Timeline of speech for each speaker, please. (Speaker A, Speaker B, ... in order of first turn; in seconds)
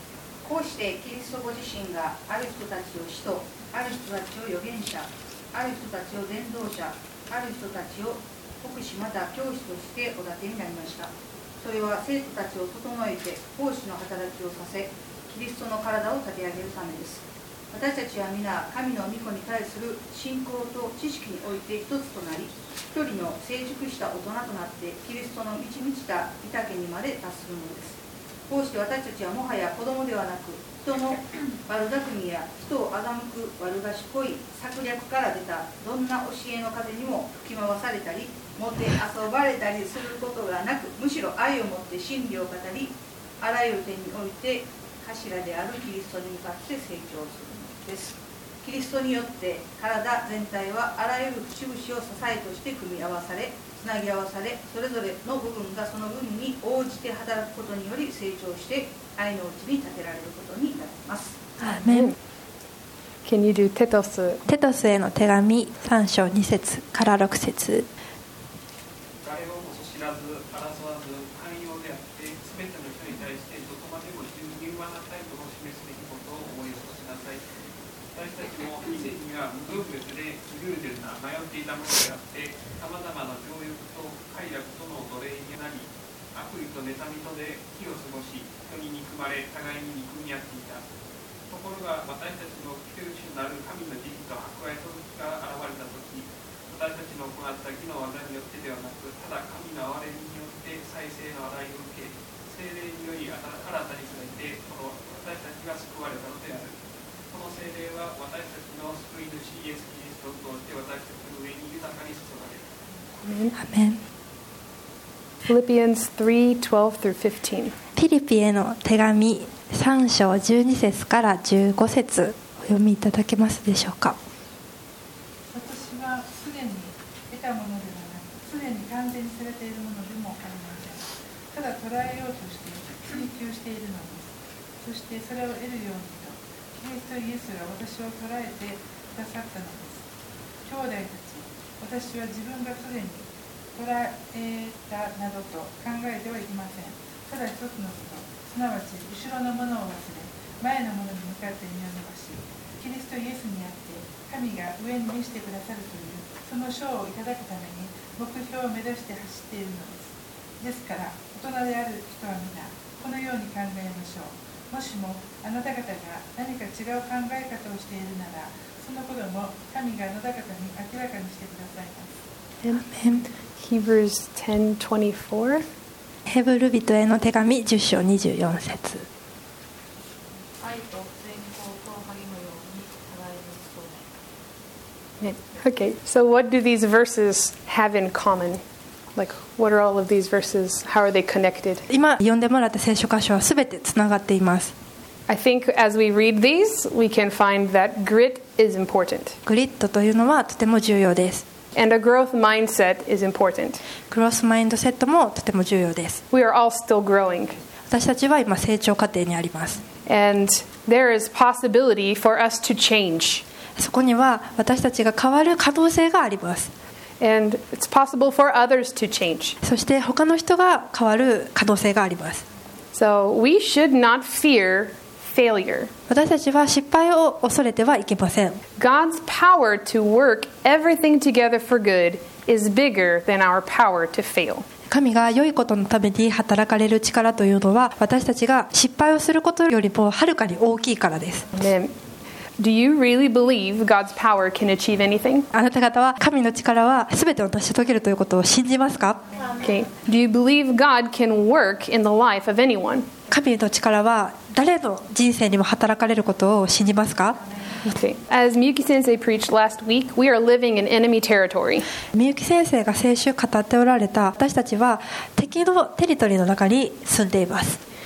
Speaker A: 0.4-61.4
Speaker B: 61.6-62.1, 64.5-67.9, 113.6-114.0, 118.0-124.2, 172.8-173.2, 176.3-179.1, 191.9-194.7, 199.5-201.4, 204.1-206.2, 207.9-209.8, 213.8-216.7, 219.6-222.4, 226.1-228.6, 234.9-241.5, 245.5-249.2, 253.3-257.4, 262.1-267.8
Speaker C: 61.8-62.1, 63.2-64.4, 113.2-113.6, 115.5-117.7, 172.6-172.9, 173.6-175.6, 185.2-188.6, 189.2-191.9, 195.3-199.4, 201.8-203.8, 206.3-207.6, 210.1-213.4, 217.2-219.6, 222.9-225.9, 228.8-234.7, 241.6-241.9, 242.6-245.5, 249.6-253.1, 257.9-261.9
Speaker D: 69.2-77.4, 78.1-90.8, 91.5-106.7, 107.3-112.7
Speaker E: 125.5-140.0, 140.7-172.2
Speaker F: 180.6-184.1